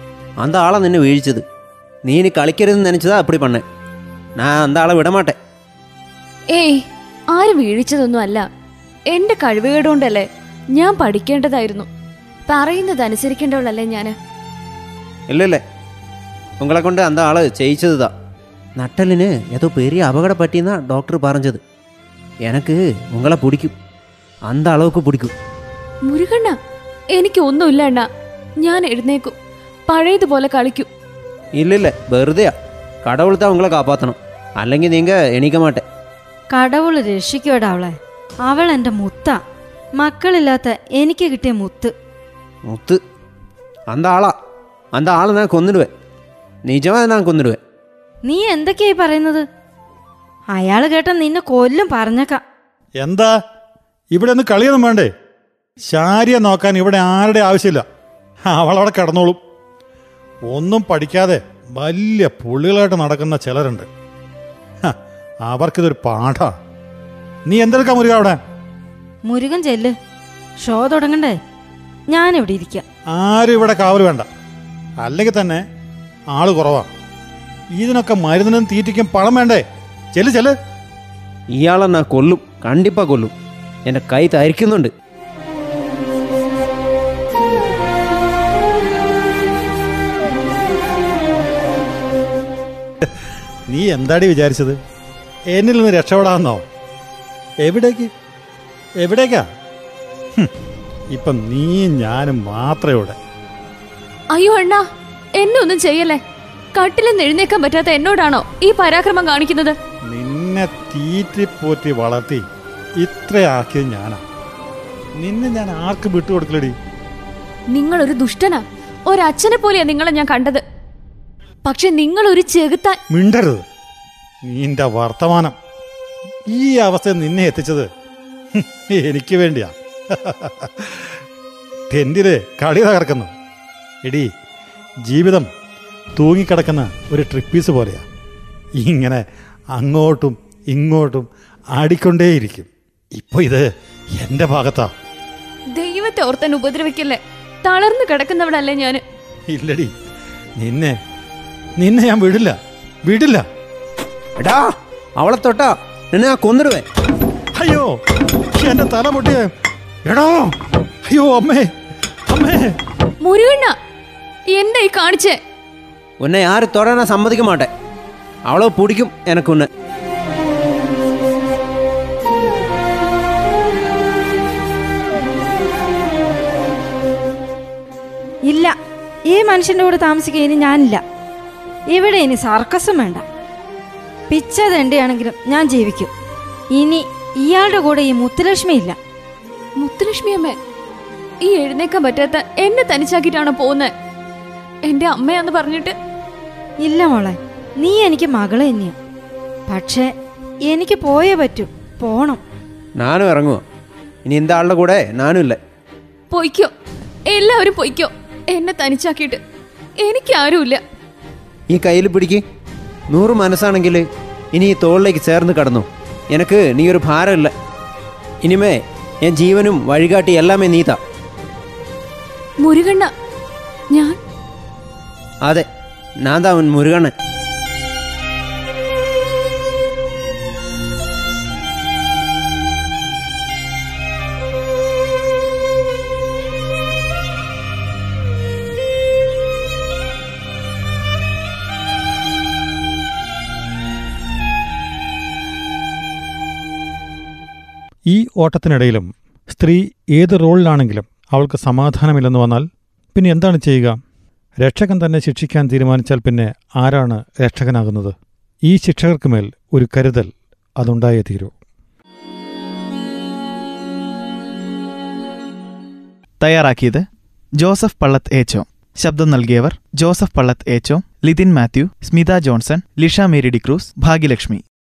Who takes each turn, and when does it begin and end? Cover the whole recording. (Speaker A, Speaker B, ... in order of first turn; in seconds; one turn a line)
Speaker A: 0.4-1.4
Speaker A: 2.0-3.6
Speaker A: 4.4-5.3
Speaker B: 6.5-6.8
Speaker B: 7.3-8.4
Speaker B: 9.1-11.9
Speaker B: 12.5-14.1
Speaker A: 15.3-15.6
Speaker A: 16.6-18.1
Speaker A: 18.8-21.6
Speaker A: 22.4-23.7
Speaker A: 24.5-25.3
Speaker B: 26.1-26.6
Speaker B: 27.1-28.1
Speaker B: 28.6-29.3
Speaker B: 29.9-30.9
Speaker A: 31.6-32.5
Speaker A: 33.0-35.8
Speaker C: 36.5-37.9
Speaker C: 38.5-39.4
Speaker C: 40.0-41.9
Speaker A: 42.7-43.0
Speaker A: 43.9-44.3
Speaker A: 44.9-45.9
Speaker A: 46.6-47.6
Speaker C: 48.3-49.4
Speaker C: 50.5-52.4
Speaker D: 53.0-53.3
Speaker D: 54.1-55.1
Speaker D: 55.9-57.8
Speaker D: 58.5-59.4
Speaker D: 60.5-63.9
Speaker D: 64.8-66.5
Speaker D: 67.5-68.4
Speaker C: 69.3-69.9
Speaker C: 70.6-71.3
Speaker C: 72.1-72.8
Speaker D: 73.1-74.3
Speaker D: 75.0-75.6
Speaker D: 76.3-76.9
Speaker D: 77.8-79.6
Speaker D: 80.1-80.5
Speaker A: 81.5-83.3
Speaker A: 83.9-84.9
Speaker D: 93.7-94.8
Speaker D: 95.5-96.6
Speaker D: 97.6-98.1
Speaker D: 99.0-99.4
Speaker D: 101.1-103.2
Speaker B: 104.3-104.8
Speaker B: 105.4-106.2
Speaker B: 106.7-109.8
Speaker D: 110.1-112.4
Speaker D: 113.0-114.2
Speaker D: 115.2-116.7
Speaker B: 117.7-120.6
Speaker B: 121.6-123.0
Speaker D: 123.1-123.6
Speaker D: 124.5-125.5
Speaker D: 126.5-127.9
Speaker D: 128.6-131.1
Speaker D: 131.9-133.3
Speaker D: 135.1-135.5
Speaker D: 136.2-138.0
Speaker D: 138.8-139.2
Speaker D: 139.7-143.7
Speaker D: 144.2-144.9
Speaker B: 145.7-149.0
Speaker D: 149.5-149.9
Speaker D: 150.6-151.0
Speaker D: 151.8-153.4
Speaker A: 154.4-156.8
Speaker D: 157.5-157.9
Speaker D: 158.6-159.5
Speaker D: 160.1-160.5
Speaker D: 161.1-161.7
Speaker D: 162.3-162.7
Speaker B: 163.2-163.7
Speaker B: 164.5-165.4
Speaker A: 166.2-167.7
Speaker A: 168.5-169.7
Speaker C: 179.3-181.0
Speaker C: 181.9-183.2
Speaker C: 184.3-186.1
Speaker C: 186.8-188.9
Speaker B: 189.8-190.6
Speaker B: 191.4-193.9
Speaker B: 194.8-195.9
Speaker C: 196.8-198.9
Speaker C: 199.7-200.0
Speaker C: 200.7-202.4
Speaker A: 203.0-203.6
Speaker A: 204.2-205.6
Speaker B: 206.3-206.7
Speaker B: 207.3-209.4
Speaker B: 210.0-210.8
Speaker A: 211.7-212.4
Speaker A: 213.1-217.5
Speaker A: 218.4-221.0
Speaker B: 222.6-223.1
Speaker A: 226.2-227.1
Speaker D: 248.1-254.0
Speaker D: 254.6-261.5
Speaker E: 266.4-274.6